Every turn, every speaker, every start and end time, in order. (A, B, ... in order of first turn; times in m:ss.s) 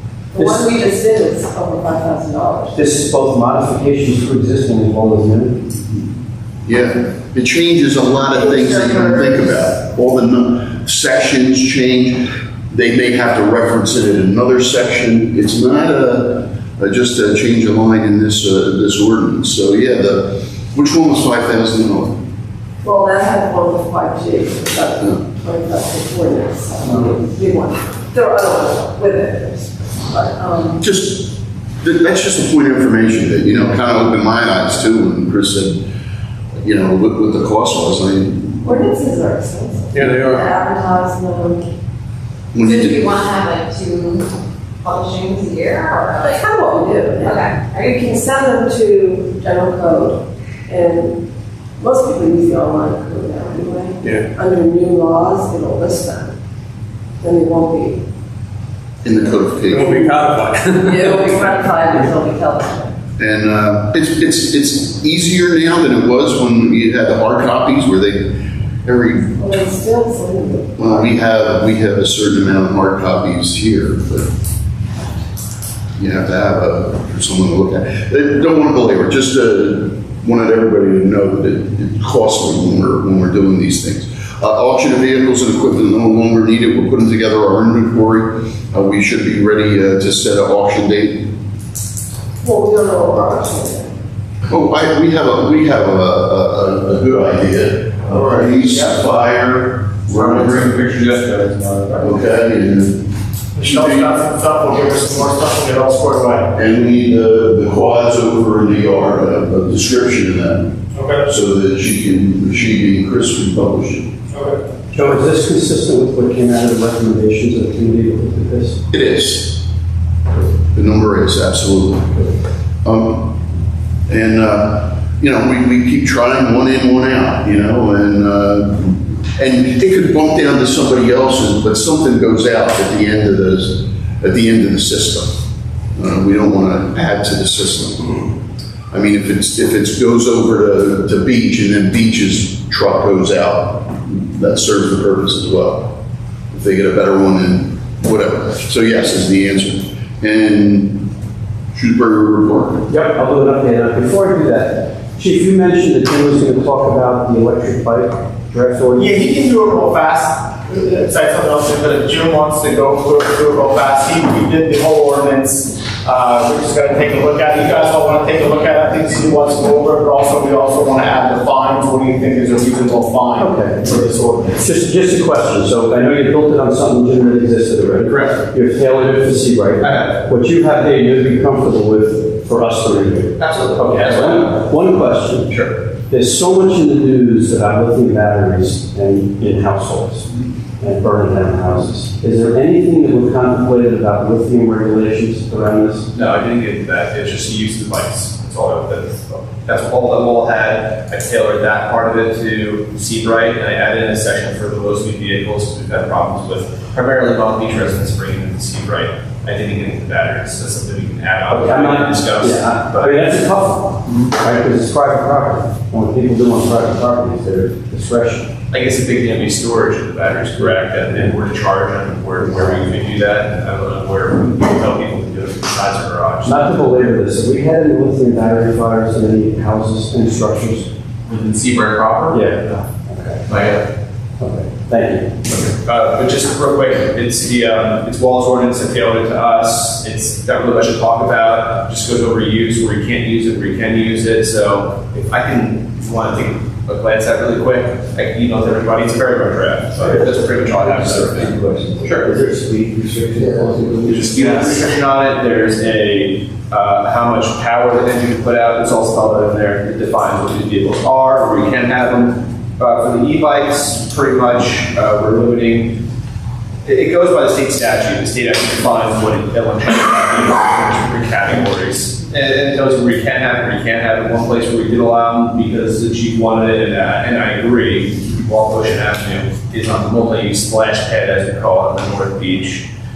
0:00.3-0:02.8 A
0:02.8-0:05.6 B
0:06.7-0:22.2 C
0:08.4-0:09.4 A
0:22.8-0:30.8 A
0:30.8-0:35.8 C
0:36.5-0:38.6 C
0:38.6-0:41.6 A
0:40.0-0:40.4 D
0:42.5-0:43.2 C
0:42.8-0:44.2 E
0:45.0-0:46.1 E
0:46.1-0:51.2 A
0:51.8-0:56.3 A
0:57.2-0:58.0 A
0:59.0-1:00.0 C
0:59.7-1:01.2 D
1:00.8-1:02.9 A
1:03.2-1:09.3 C
1:09.4-1:10.9 A
1:10.8-1:14.3 C
1:16.0-1:31.3 C
1:32.4-1:33.9 A
1:34.5-1:40.8 C
1:40.1-1:42.0 F
1:42.0-1:43.0 C
1:43.6-1:46.5 G
1:43.6-1:44.1 C
1:46.5-1:50.7 C
1:51.0-1:51.3 G
1:51.2-1:54.1 C
1:54.3-1:54.6 G
1:54.9-1:58.8 B
1:58.9-1:59.6 C
2:00.4-2:03.3 C
2:04.1-2:15.4 C
2:16.0-2:18.3 C
2:18.9-2:25.9 C
2:26.5-2:31.1 C
2:31.7-2:32.9 C
2:32.9-2:39.2 B
2:39.0-2:54.5 G
2:53.4-2:54.0 B
2:54.6-3:05.6 B
2:58.0-2:58.4 F
2:59.8-3:00.2 F
3:03.4-3:04.6 F
3:05.5-3:05.7 F
3:06.1-3:10.3 B
3:10.8-3:16.1 B
3:16.1-3:33.2 F
3:31.5-3:38.5 B
3:38.7-3:47.0 F
3:46.4-3:50.9 B
3:51.3-3:52.5 F
3:52.3-3:53.4 B
3:53.5-3:53.8 F
3:54.4-3:55.3 B
3:55.5-4:12.3 F
4:11.3-4:14.8 B
4:14.1-4:26.0 F
4:26.8-4:42.9 F